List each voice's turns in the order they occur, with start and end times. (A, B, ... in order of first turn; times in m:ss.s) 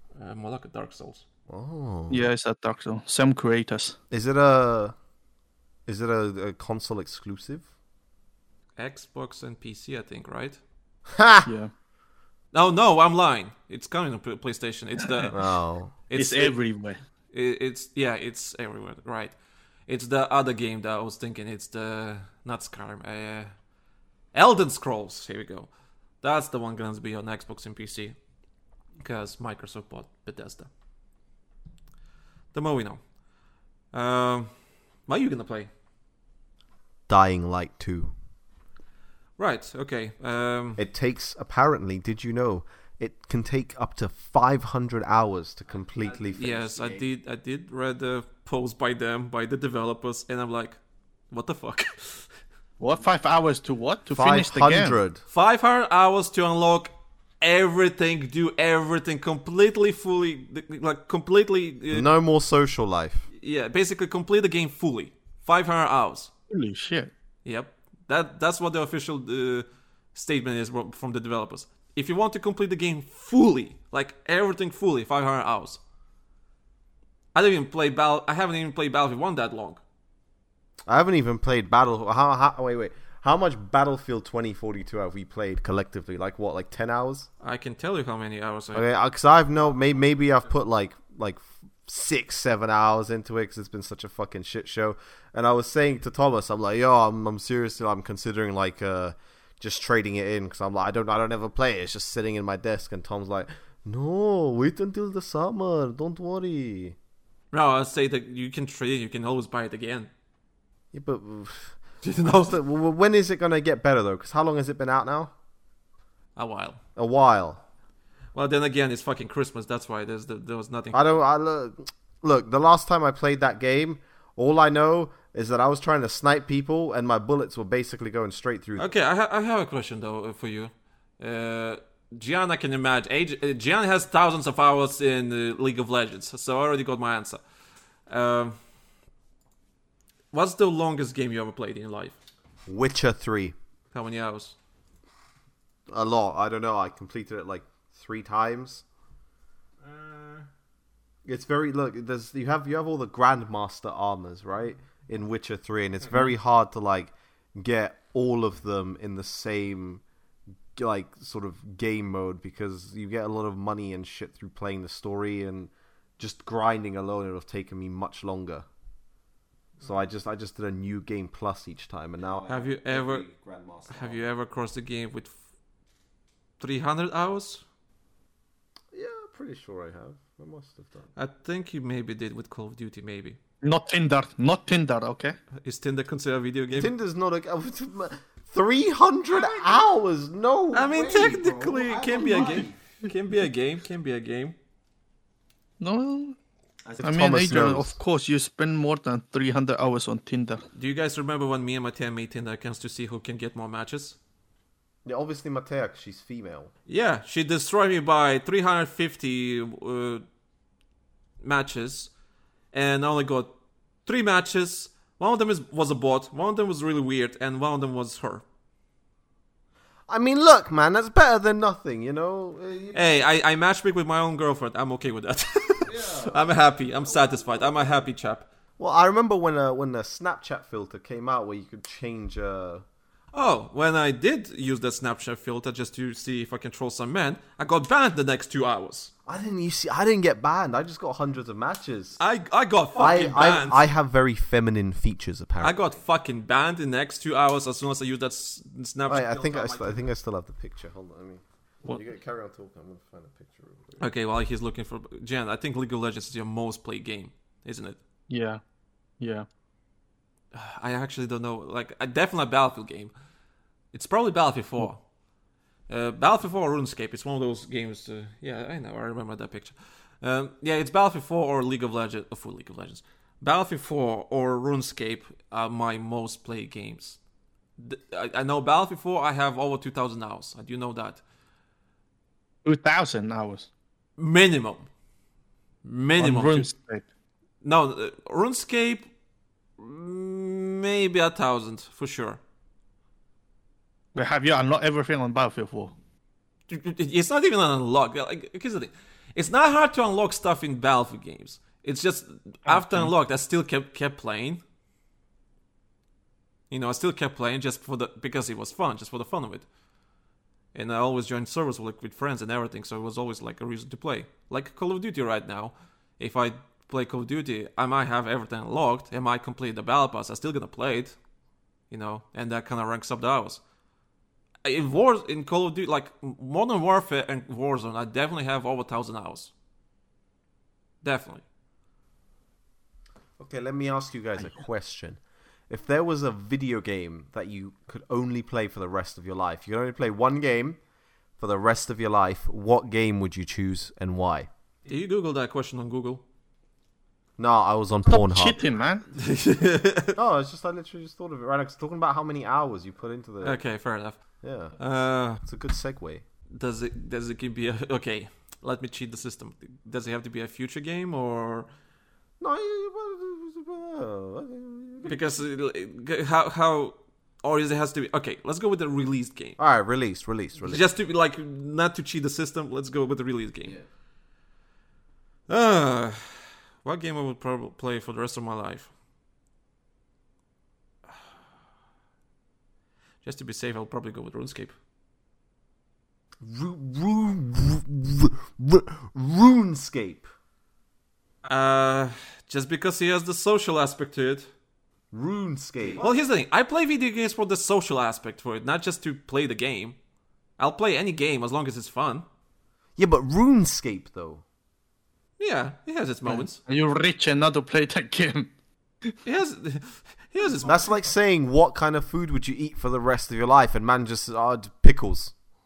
0:00.2-0:01.2 A
0:01.5-0:02.3 B
0:02.1-0:04.0 C
0:04.1-0:04.9 B
0:05.9-0:07.6 B
0:08.8-0:10.6 A
0:11.1-0:11.5 B
0:11.4-0:11.7 C
0:12.5-0:15.4 A
0:15.0-0:15.4 C
0:15.3-0:15.9 B
0:16.1-0:16.6 A
0:16.1-0:17.0 C
0:17.3-0:19.3 A
0:19.9-0:23.5 A
0:24.3-0:25.7 A
0:26.2-0:28.2 A
0:29.0-0:30.7 A
0:32.5-0:33.0 A
0:33.9-0:34.5 A
0:35.1-0:35.7 A
0:37.1-0:38.1 B
0:39.4-0:40.8 A
0:40.8-0:47.1 B
0:46.0-0:50.8 A
0:51.3-0:52.3 A
0:52.8-0:55.0 C
0:54.1-0:55.2 B
0:55.3-1:02.1 A
1:01.9-1:03.3 B
1:03.3-1:06.3 A
1:06.5-1:07.1 C
1:07.4-1:15.8 A
1:17.3-1:19.8 A
1:20.9-1:27.3 B
1:27.4-1:28.8 A
1:28.7-1:47.0 B
1:47.5-1:50.1 A
1:50.9-1:55.3 B
1:52.0-1:52.6 A
1:56.4-1:56.8 A
1:57.0-1:57.6 B
1:58.3-2:01.0 A
2:00.9-2:08.9 B
2:08.8-2:17.4 A
2:18.1-2:18.6 A
2:20.3-2:22.2 A
2:22.7-2:23.5 B
2:23.9-2:24.6 A
2:25.9-2:28.8 B
2:29.8-2:30.5 A
2:31.2-2:40.0 B
2:40.8-2:48.6 B
2:49.8-2:54.2 B
2:52.5-2:53.2 A
2:53.9-2:55.4 A
2:56.6-2:57.6 A
2:58.9-3:01.1 B
3:01.2-3:03.4 A
3:03.6-3:05.4 C
3:05.6-3:06.9 A
3:06.7-3:12.8 B
3:10.7-3:14.6 A
3:15.8-3:16.4 C
3:16.8-3:17.9 B
3:17.0-3:20.6 C
3:20.7-3:24.2 A
3:25.0-3:26.7 B
3:26.9-3:30.2 A
3:31.4-3:32.1 A
3:32.7-3:33.5 A
3:34.0-3:38.4 A
3:40.1-3:43.0 B
3:42.9-3:48.5 A
3:45.8-3:48.0 B
3:48.8-3:52.8 B
3:53.3-3:59.1 A
3:59.2-4:02.2 B
4:02.2-4:03.9 A
4:03.0-4:06.0 B
4:05.6-4:10.0 A
4:09.1-4:14.1 B
4:14.0-4:18.0 A
4:18.3-4:18.6 C
4:19.2-4:19.5 C
4:20.5-4:23.1 A
4:23.9-4:25.0 A
4:25.9-4:37.2 A
4:37.8-4:41.2 A
4:42.6-4:43.7 C
4:44.2-4:44.8 A
4:45.8-4:46.7 A
4:46.2-4:47.0 C
4:47.6-4:49.1 A
4:49.8-4:52.4 A
4:54.1-4:55.9 C
4:56.7-5:04.6 A
5:02.7-5:03.1 C
5:06.7-5:09.6 A
5:10.7-5:21.2 A
5:21.9-5:23.6 A
5:24.6-5:29.5 A
5:31.0-5:31.4 A
5:33.4-5:40.8 B
5:41.4-5:44.5 B
5:44.8-5:46.2 A
5:47.4-5:48.6 B
5:48.1-5:49.0 C
5:49.1-5:50.2 A
5:50.2-5:53.6 B
5:53.4-5:54.2 A
5:54.4-5:54.8 B
5:54.8-5:55.4 A
5:55.4-5:56.2 B
5:56.5-6:01.7 A
6:02.4-6:05.2 B
6:05.0-6:09.6 A
6:09.6-6:10.8 B
6:10.6-6:13.8 A
6:15.5-6:18.9 A
6:23.2-6:24.8 A
6:26.4-6:30.3 B
6:31.4-6:34.5 A
6:35.1-6:36.0 B
6:36.0-6:40.0 A
6:40.6-6:42.2 A
6:43.0-6:44.4 B
6:45.4-6:46.6 A
6:46.3-6:48.5 C
6:49.2-6:50.9 A
6:50.6-6:55.3 B